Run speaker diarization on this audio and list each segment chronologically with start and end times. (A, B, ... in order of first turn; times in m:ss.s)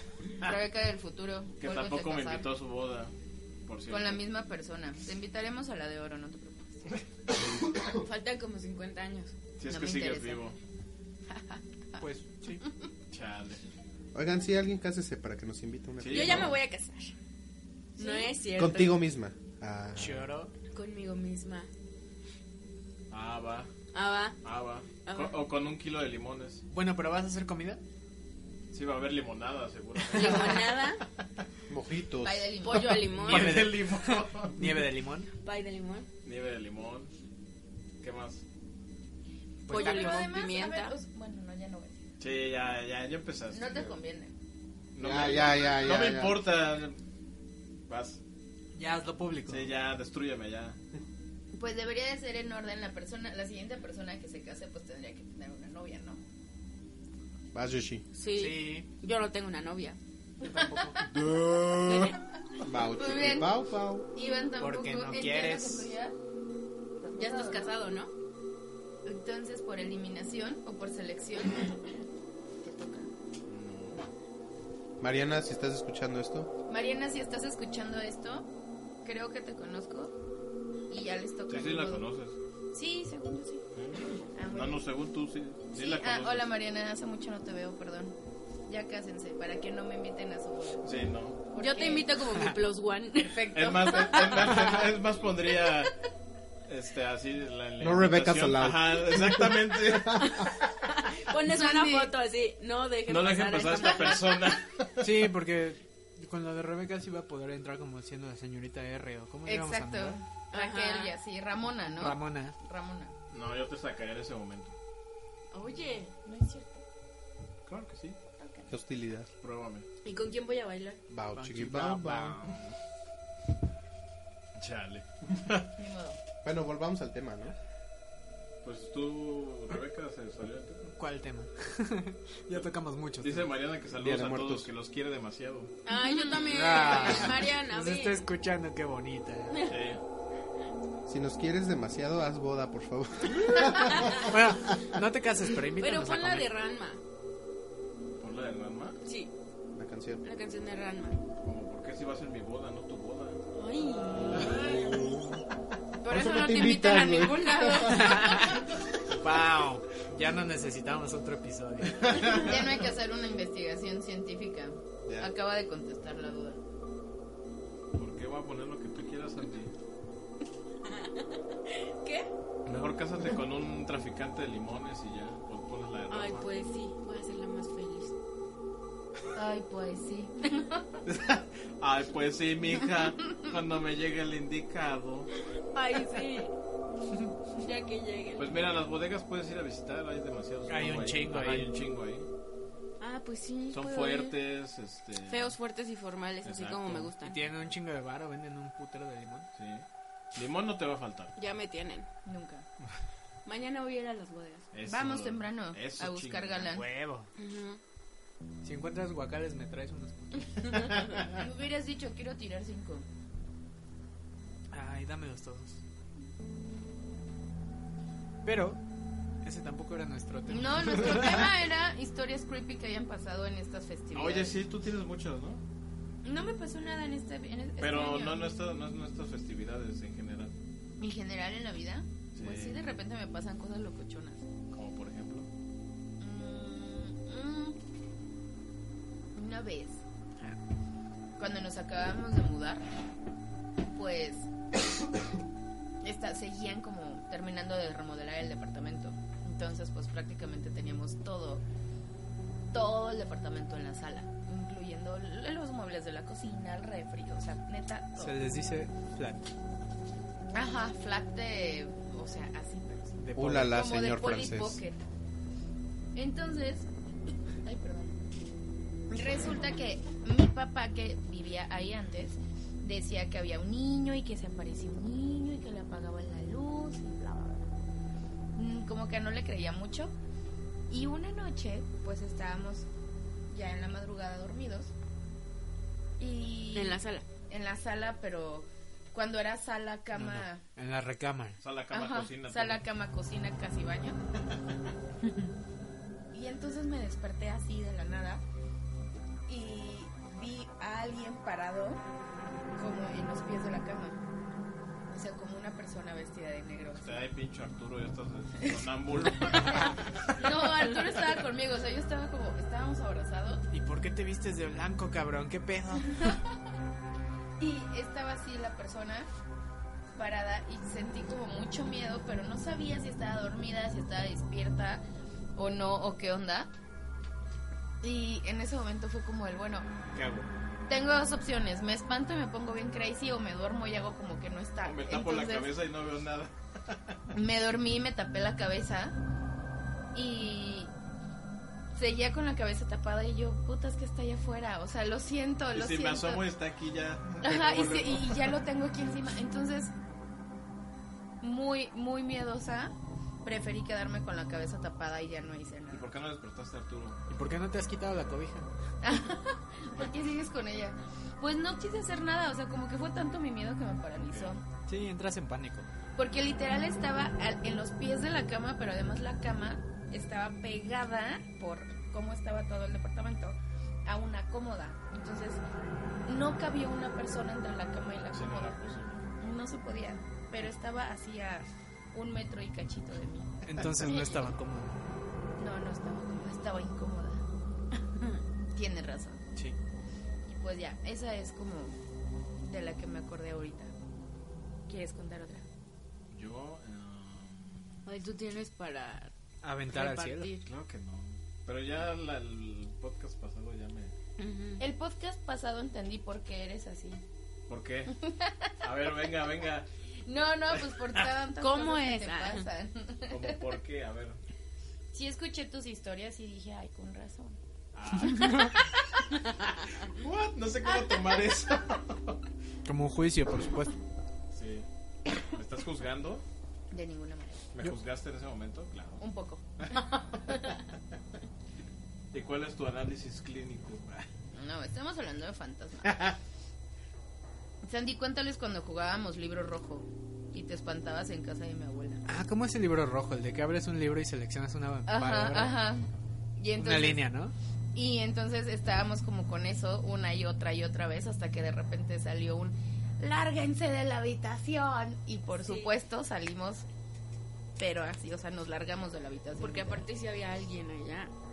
0:00.4-0:02.5 A
0:01.6-0:03.1 B
0:03.7-0:04.2 B
0:03.9-0:06.8 A
0:07.9-0:09.4 C
0:09.6-0:10.6 B
0:09.7-0:10.4 A
0:11.3-0:11.6 A
0:12.0-0:12.6 D
0:13.1-0:13.6 B
0:14.2-0:16.6 E
0:16.0-0:16.6 B
0:16.1-0:17.2 C
0:18.0-0:19.0 C
0:18.0-0:18.3 A
0:18.5-0:20.3 E
0:20.0-0:20.5 D
0:20.7-0:21.7 C
0:23.1-0:23.7 B
0:23.9-0:24.4 C
0:24.4-0:26.6 B
0:25.0-0:25.4 C
0:26.7-0:27.8 D
0:28.7-0:31.0 B
0:30.1-0:31.0 C
0:31.7-0:32.7 E
0:32.2-0:33.1 A
0:32.6-0:33.7 C
0:33.1-0:34.6 B
0:33.2-0:35.3 D
0:35.4-0:36.1 C
0:36.2-0:37.1 B
0:38.0-0:38.4 B
0:39.7-0:40.3 D
0:39.7-0:41.0 C
0:39.7-0:42.0 A
0:42.2-0:43.8 B
0:43.5-0:44.3 A
0:44.9-0:47.0 B
0:45.0-0:46.5 E
0:47.9-0:48.2 B
0:48.8-0:49.7 D
0:49.5-0:50.8 B
0:51.5-0:56.2 A
0:57.5-0:58.0 E
0:58.2-1:00.0 C
0:58.3-0:58.9 D
1:00.4-1:01.0 D
1:00.4-1:01.2 A
1:01.2-1:04.1 E
1:01.9-1:02.1 C
1:02.9-1:03.5 A
1:04.1-1:06.2 A
1:04.6-1:05.9 D
1:07.0-1:07.7 A
1:07.2-1:08.1 C
1:09.0-1:12.0 A
1:12.6-1:13.1 A
1:13.5-1:14.0 B
1:15.0-1:16.5 E
1:16.7-1:18.5 A
1:19.0-1:20.1 A
1:20.9-1:22.0 A
1:21.5-1:22.4 B
1:22.7-1:23.6 A
1:23.7-1:26.5 B
1:24.4-1:24.8 A
1:25.7-1:30.8 A
1:30.8-1:31.4 B
1:31.5-1:32.2 A
1:31.5-1:34.3 C
1:33.2-1:34.8 A
1:33.5-1:35.9 B
1:36.7-1:40.6 B
1:37.8-1:40.5 E
1:40.2-1:44.4 C
1:41.4-1:42.1 A
1:43.1-1:45.1 B
1:45.0-1:50.2 D
1:49.5-1:53.1 A
1:50.5-1:51.2 C
1:51.9-1:52.6 D
1:53.3-1:54.7 B
1:55.5-1:56.1 C
1:56.2-1:56.8 A
1:57.7-1:58.2 B
1:58.4-1:58.7 A
1:58.7-1:59.3 E
1:59.4-1:59.9 B
2:00.0-2:01.0 C
2:01.1-2:02.4 E
2:01.3-2:02.6 D
2:04.6-2:05.7 B
2:05.8-2:06.2 A
2:06.4-2:07.6 E
2:08.6-2:10.9 B
2:11.0-2:13.5 D
2:13.2-2:15.7 B
2:14.0-2:14.7 E
2:15.8-2:18.2 C
2:16.4-2:19.6 D
2:19.6-2:20.0 B
2:21.1-2:24.3 E
2:23.9-2:24.2 C
2:24.1-2:26.5 D
2:25.8-2:27.0 C
2:28.2-2:29.0 B
2:29.0-2:29.3 C
2:29.8-2:30.2 E
2:30.2-2:31.2 C
2:31.4-2:33.4 B
2:33.6-2:34.8 C
2:34.3-2:34.7 B
2:34.4-2:35.4 E
2:36.0-2:38.2 E
2:36.0-2:38.5 C
2:36.7-2:38.0 A
2:37.9-2:42.4 D
2:42.1-2:42.5 B
2:42.3-2:46.6 A
2:48.0-2:49.7 B
2:50.8-2:52.3 C
2:52.7-2:56.5 B
2:56.1-2:58.1 C
2:59.3-3:00.9 A
3:01.0-3:05.3 B
3:05.7-3:06.5 C
3:07.5-3:08.6 C
3:08.4-3:12.3 B
3:10.7-3:11.7 D
3:13.0-3:14.4 C
3:13.7-3:15.6 B
3:15.2-3:17.4 C
3:16.4-3:17.1 B
3:17.2-3:19.5 D
3:19.6-3:21.4 B
3:21.4-3:22.1 C
3:22.3-3:22.7 A
3:23.5-3:24.7 C
3:24.7-3:26.8 B
3:24.9-3:26.9 A
3:26.6-3:27.3 D
3:27.4-3:27.8 C
3:28.6-3:30.7 D
3:30.6-3:31.1 C
3:31.3-3:33.1 A
3:34.7-3:35.8 D
3:38.4-3:38.8 D
3:39.4-3:41.5 D
3:40.5-3:44.6 A
3:44.1-3:45.6 B
3:46.2-3:48.4 A
3:47.8-3:50.5 B
3:51.0-3:54.5 A
3:52.4-3:52.8 B
3:54.7-3:55.5 B
3:56.2-3:57.8 A
3:59.3-4:00.0 A
4:01.4-4:02.9 A
4:03.9-4:04.5 A
4:06.0-4:11.6 A
4:12.7-4:18.4 A
4:18.2-4:19.4 D
4:20.5-4:25.0 A
4:23.2-4:23.8 D
4:23.4-4:24.8 E
4:26.2-4:26.9 A
4:27.6-4:28.2 A
4:29.1-4:37.7 A
4:38.6-4:40.1 A
4:40.9-4:42.9 A
4:43.5-4:44.9 A
4:46.2-4:50.6 A
4:46.7-4:47.3 C
4:50.1-4:51.6 D
4:51.6-4:52.8 B
4:51.9-4:54.2 A
4:56.3-4:58.4 A
4:59.5-5:02.0 A
5:02.8-5:04.2 A
5:05.1-5:07.2 A
5:07.0-5:10.3 B
5:09.4-5:13.6 A
5:13.7-5:16.4 D
5:17.6-5:19.3 A
5:20.2-5:25.0 A
5:25.6-5:26.7 A
5:28.0-5:29.9 A
5:30.2-5:30.4 B
5:30.9-5:35.7 A
5:34.8-5:37.2 B
5:37.3-5:39.2 A
5:40.1-5:40.9 A
5:41.9-5:46.4 A
5:45.7-5:48.6 B
5:47.4-5:49.9 A
5:51.4-5:56.1 A
5:55.9-5:57.2 B
5:57.3-5:58.7 D
5:59.0-6:04.6 A
6:04.2-6:04.6 B
6:04.9-6:05.9 D
6:06.2-6:15.6 A
6:16.3-6:18.8 A
6:18.3-6:19.3 B
6:19.4-6:23.5 A
6:23.6-6:25.0 D
6:24.0-6:24.3 A
6:25.6-6:27.4 A
6:28.7-6:29.4 A
6:30.5-6:32.0 A
6:32.6-6:33.9 A
6:34.9-6:35.6 A
6:36.3-6:37.8 B
6:38.1-6:39.3 C
6:39.6-6:40.5 D
6:39.9-6:40.7 C
6:40.6-6:44.1 B
6:44.4-6:44.8 C
6:44.8-6:47.2 A
6:47.7-6:48.2 B
6:48.2-6:48.7 A
6:48.8-6:49.9 B
6:50.2-6:53.6 A
6:50.7-6:51.2 B
6:51.6-6:52.7 C
6:53.3-6:54.4 B
6:55.1-6:57.6 A
6:57.9-6:58.8 B
6:58.3-6:58.8 D
7:00.0-7:02.4 B
7:02.8-7:04.0 D
7:04.5-7:04.9 B
7:05.4-7:06.4 B
7:06.9-7:07.7 A
7:07.7-7:09.2 B
7:09.2-7:09.6 A
7:09.8-7:10.0 B
7:10.3-7:10.7 A
7:12.3-7:14.3 B
7:14.6-7:16.3 A
7:16.0-7:16.3 B
7:17.8-7:22.2 A
7:22.3-7:25.8 D
7:25.1-7:27.2 A
7:26.8-7:27.6 D
7:27.9-7:36.8 A
7:35.6-7:35.9 C
7:37.8-7:40.1 A
7:39.6-7:41.3 C